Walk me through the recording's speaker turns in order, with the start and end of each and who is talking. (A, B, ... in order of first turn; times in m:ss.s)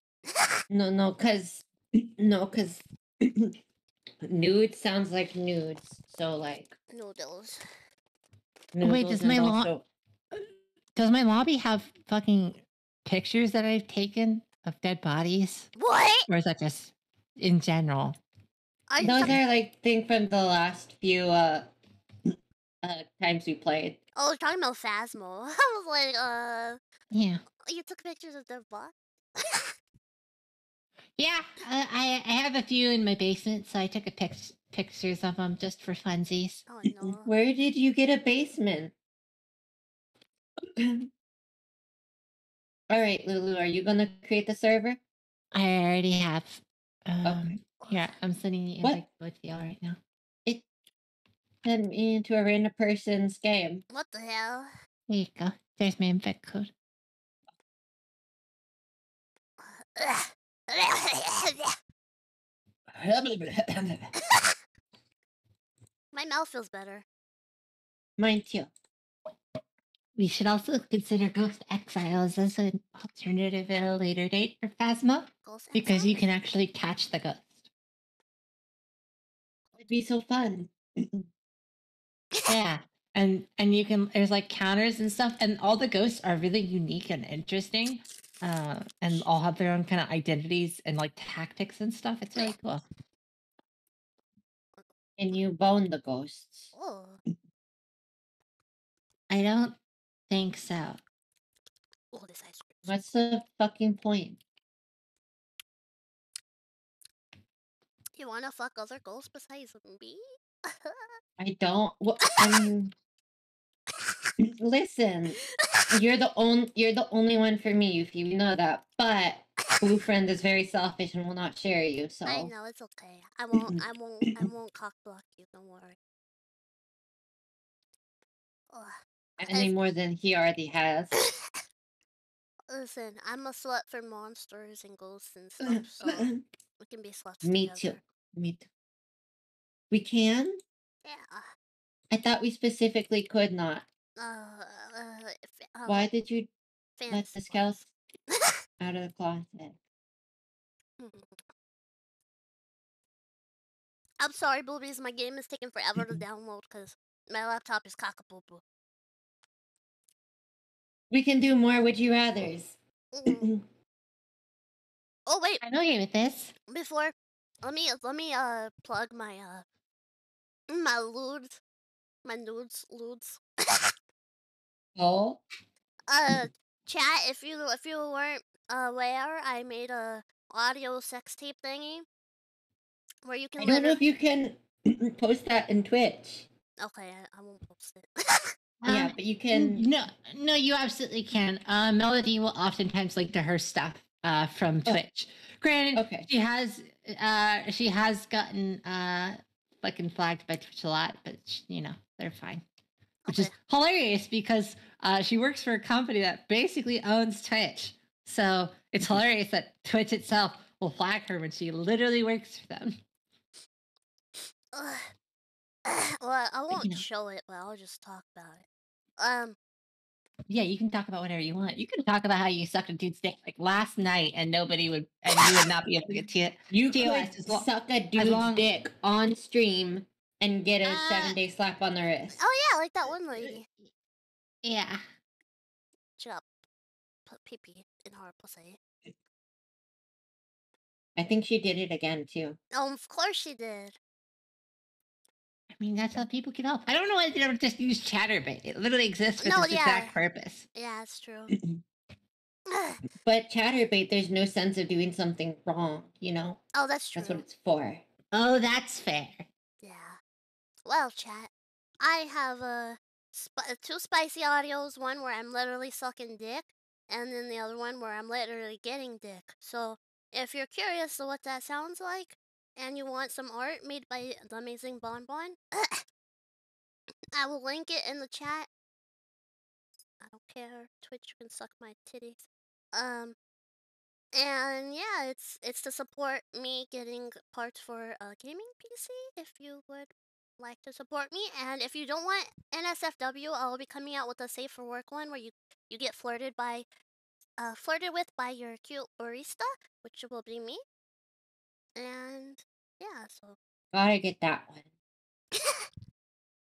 0:00.3-0:00.6 A
0:00.7-0:03.6 B
0:04.2-0:06.7 B
0:06.9-0:07.6 A
0:08.7-0:09.8 B
0:08.8-0:09.7 C
0:10.9-0:15.7 C
0:15.8-0:16.2 A
0:16.3-0:18.2 C
0:18.9-0:19.4 A
0:19.0-0:21.7 B
0:22.3-0:24.0 B
0:24.1-0:26.8 A
0:27.1-0:27.4 C
0:27.6-0:29.7 A
0:31.2-0:36.6 C
0:36.7-0:37.3 A
0:37.0-0:38.9 B
0:40.6-0:41.1 B
0:42.9-0:45.0 B
0:45.5-0:50.0 C
0:47.2-0:47.5 B
0:47.8-0:48.1 A
0:51.6-0:53.8 B
0:53.9-0:54.7 A
0:55.1-0:56.7 C
0:59.6-1:01.8 A
1:02.9-1:04.1 B
1:04.2-1:04.6 A
1:06.1-1:07.0 A
1:08.2-1:08.7 B
1:10.2-1:17.5 C
1:15.4-1:16.2 A
1:19.8-1:21.3 B
1:22.5-1:32.8 C
1:35.2-1:36.7 B
1:36.7-1:37.2 A
1:39.3-1:39.8 C
1:40.3-1:41.0 C
1:42.1-1:43.0 A
1:42.8-1:44.4 B
1:48.1-1:51.2 A
1:51.4-1:52.9 B
1:52.2-1:52.7 A
1:54.0-1:54.3 A
1:54.4-1:55.4 B
1:55.6-1:55.9 A
1:55.9-2:02.5 B
2:02.2-2:06.0 A
2:03.5-2:04.5 B
2:08.7-2:09.7 A
2:09.4-2:11.1 B
2:11.2-2:11.6 A
2:12.7-2:16.3 A
2:15.6-2:16.4 B
2:16.8-2:18.0 A
2:17.4-2:18.7 B
2:19.9-2:20.6 B
2:21.0-2:21.5 A
2:22.1-2:23.9 B
2:24.2-2:26.1 A
2:25.8-2:26.5 B
2:27.0-2:27.6 A
2:27.1-2:27.9 B
2:28.3-2:28.6 A
2:28.8-2:29.8 B
2:31.0-2:31.4 A
2:34.2-2:38.6 A
2:41.1-2:43.6 B
2:43.1-2:43.5 A
2:45.3-2:45.6 A
2:45.6-2:46.5 C
2:46.7-2:49.6 A
2:50.7-2:51.6 A
2:52.2-2:53.9 A
2:55.0-2:55.4 B
2:56.1-3:02.0 A
3:03.2-3:04.0 A
3:03.6-3:06.5 B
3:06.8-3:08.5 A
3:08.8-3:22.6 C
3:08.8-3:09.9 B
3:15.9-3:16.3 B
3:23.2-3:23.5 A
3:23.3-3:33.0 C
3:34.7-3:35.1 A
3:35.8-3:38.6 A
3:39.2-3:39.6 A
3:40.5-3:48.6 C
3:46.7-3:52.4 B
3:50.8-3:51.4 C
3:52.4-3:53.6 A
3:54.6-3:55.0 C
3:56.2-3:56.5 A
3:57.3-3:58.8 A
4:01.2-4:02.6 B
4:02.7-4:04.0 A
4:05.7-4:10.7 C
4:09.4-4:10.1 A
4:10.7-4:11.5 A
4:11.5-4:11.8 B
4:12.7-4:13.0 A
4:13.2-4:16.6 B
4:16.7-4:17.4 A
4:17.2-4:18.0 B
4:18.3-4:19.5 C
4:19.8-4:20.2 A
4:20.8-4:36.0 A
4:37.3-4:38.7 A
4:40.2-4:43.4 A
4:44.3-4:56.8 A
4:57.6-5:00.8 A
5:02.0-5:03.6 A
5:03.9-5:04.9 B
5:05.5-5:05.9 A